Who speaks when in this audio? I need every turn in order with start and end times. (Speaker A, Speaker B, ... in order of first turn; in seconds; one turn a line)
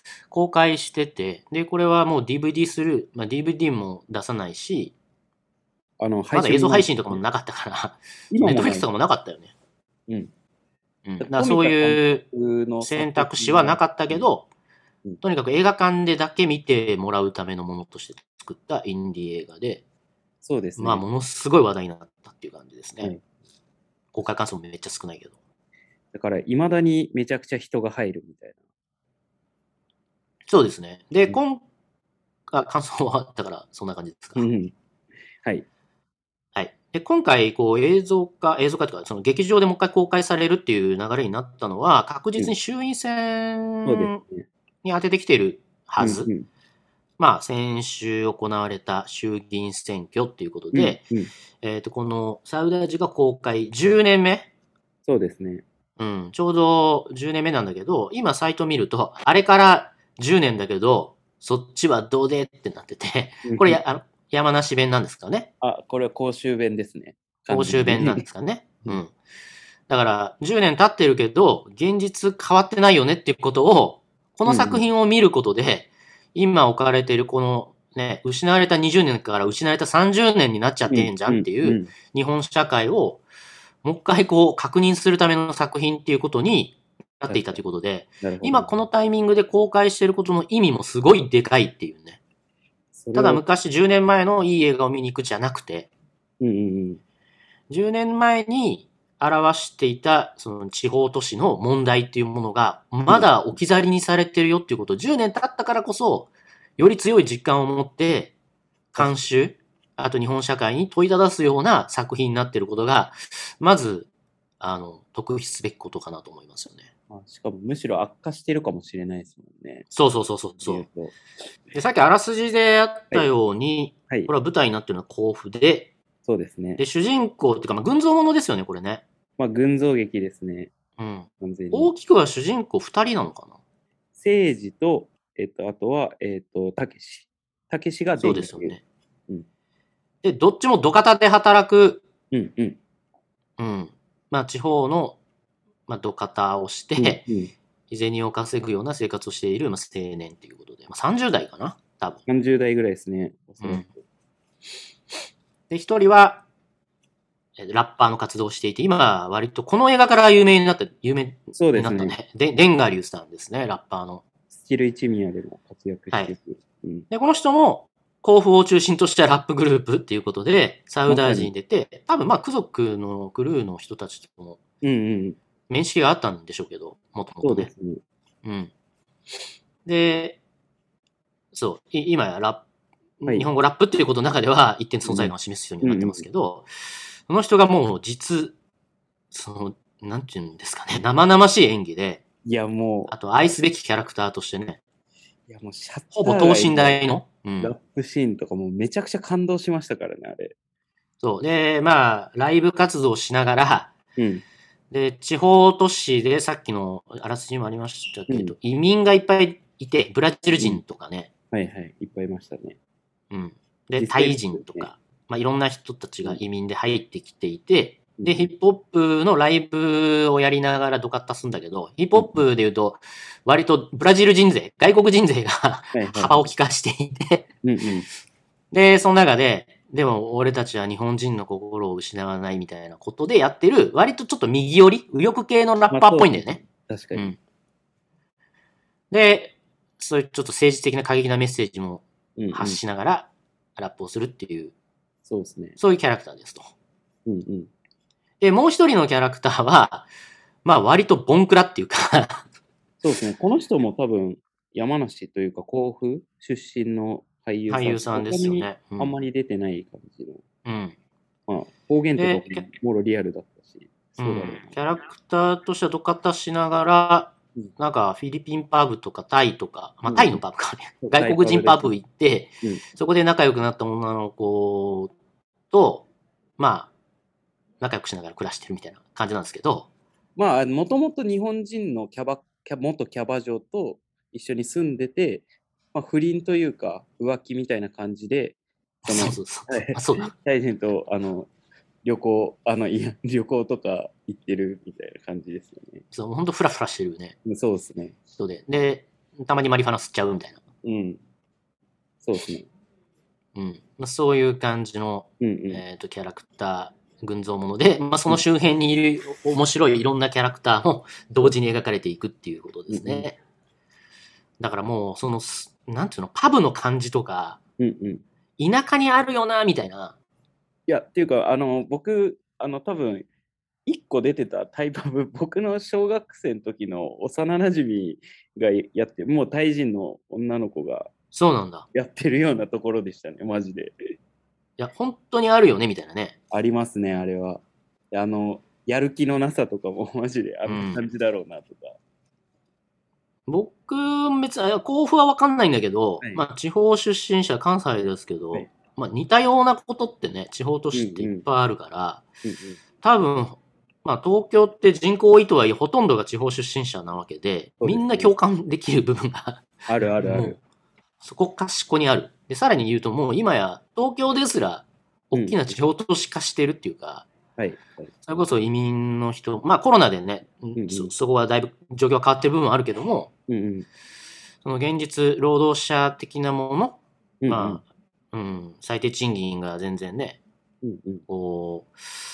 Speaker A: 0.3-4.9
Speaker B: 6.0-7.2
Speaker A: 6.3-9.5
Speaker B: 8.3-8.9
Speaker A: 11.1-12.2
Speaker B: 11.2-14.3
Speaker A: 12.8-14.5
Speaker A: 15.2-19.8
Speaker B: 20.4-21.0
Speaker A: 20.8-23.1
Speaker A: 24.1-25.3
Speaker B: 26.1-28.6
Speaker A: 30.5-31.6
Speaker A: 32.5-34.5
Speaker B: 34.4-34.7
Speaker A: 36.5-44.2
Speaker B: 43.8-44.5
Speaker A: 44.8-46.3
Speaker B: 46.0-46.5
Speaker A: 47.2-51.0
Speaker B: 50.7-51.3
Speaker A: 51.6-54.5
Speaker B: 55.0-55.6
Speaker A: 56.0-65.5
Speaker B: 63.4-63.8
Speaker B: 65.6-68.2
Speaker A: 67.5-69.1
Speaker A: 69.9-83.2
Speaker B: 74.5-74.8
Speaker B: 80.9-81.9
Speaker A: 83.8-92.2
Speaker B: 87.3-87.6
Speaker B: 88.2-88.8
Speaker B: 92.9-93.4
Speaker A: 93.1-95.9
Speaker B: 96.4-97.0
Speaker A: 97.7-108.3
Speaker B: 103.1-103.6
Speaker B: 108.9-109.3
Speaker A: 109.0-116.9
Speaker B: 117.1-119.9
Speaker A: 119.9-120.9
Speaker B: 120.6-121.2
Speaker A: 121.7-125.9
Speaker B: 126.2-126.8
Speaker A: 126.8-129.0
Speaker B: 129.4-130.7
Speaker A: 131.0-133.6
Speaker B: 131.4-131.9
Speaker B: 134.2-138.8
Speaker A: 138.2-138.8
Speaker A: 140.2-142.0
Speaker B: 142.3-142.8
Speaker A: 143.6-145.2
Speaker A: 145.9-147.3
Speaker B: 147.0-147.5
Speaker A: 147.9-152.2
Speaker B: 152.3-154.0
Speaker A: 153.6-153.8
Speaker A: 155.7-156.4
Speaker A: 157.6-164.2
Speaker B: 161.5-162.2
Speaker B: 164.5-167.1
Speaker A: 167.1-174.6
Speaker B: 171.1-171.5
Speaker B: 174.8-175.4
Speaker A: 175.7-177.7
Speaker B: 177.4-178.0
Speaker A: 178.4-178.7
Speaker A: 179.8-180.4
Speaker A: 181.5-182.6
Speaker A: 183.2-186.7
Speaker B: 185.0-186.2
Speaker A: 187.3-188.6
Speaker A: 189.3-192.2
Speaker B: 192.4-193.1
Speaker A: 193.1-194.8
Speaker B: 195.5-200.5
Speaker A: 196.1-197.7
Speaker A: 201.2-203.9
Speaker B: 204.2-204.4
Speaker A: 204.9-211.3
Speaker B: 208.3-208.6
Speaker B: 210.6-210.8
Speaker B: 211.5-212.8
Speaker A: 213.3-227.5
Speaker B: 214.0-214.9
Speaker B: 218.2-218.5
Speaker B: 225.9-226.5
Speaker B: 227.6-228.1
Speaker A: 228.7-237.4
Speaker B: 235.9-237.3
Speaker A: 239.1-244.7
Speaker B: 242.4-242.8
Speaker B: 245.2-245.8
Speaker A: 245.8-246.7
Speaker B: 247.2-247.7
Speaker A: 248.4-250.1
Speaker A: 250.6-252.4
Speaker B: 253.0-260.4
Speaker A: 257.7-259.1
Speaker A: 260.6-261.0
Speaker B: 261.5-264.8
Speaker A: 262.1-262.6
Speaker A: 264.2-275.1
Speaker B: 270.1-270.4
Speaker B: 271.0-272.0
Speaker A: 275.7-276.1
Speaker A: 276.6-276.9
Speaker A: 277.8-279.9
Speaker B: 280.4-291.5
Speaker A: 289.1-290.3
Speaker B: 292.0-296.0
Speaker A: 296.1-297.4
Speaker B: 297.4-298.1
Speaker A: 298.3-300.6
Speaker B: 300.8-301.2
Speaker B: 302.2-302.7
Speaker A: 303.5-313.4
Speaker B: 305.4-305.8
Speaker B: 312.9-313.3
Speaker A: 314.6-317.6
Speaker B: 317.8-318.2
Speaker A: 318.6-320.1
Speaker B: 320.9-323.3
Speaker B: 323.9-331.1
Speaker A: 331.3-331.9
Speaker B: 331.9-334.1
Speaker A: 334.8-336.4
Speaker B: 336.5-342.0
Speaker A: 340.6-341.0
Speaker A: 343.5-352.2
Speaker B: 350.9-351.4
Speaker B: 352.4-352.8
Speaker A: 353.0-360.6
Speaker B: 357.8-358.3
Speaker B: 359.9-360.6
Speaker A: 361.2-367.3
Speaker B: 365.3-365.6
Speaker B: 367.6-368.1
Speaker A: 368.2-373.3
Speaker B: 370.8-371.1
Speaker B: 373.5-373.9
Speaker A: 374.6-380.4
Speaker B: 377.4-377.8
Speaker B: 380.8-381.2
Speaker A: 381.3-382.0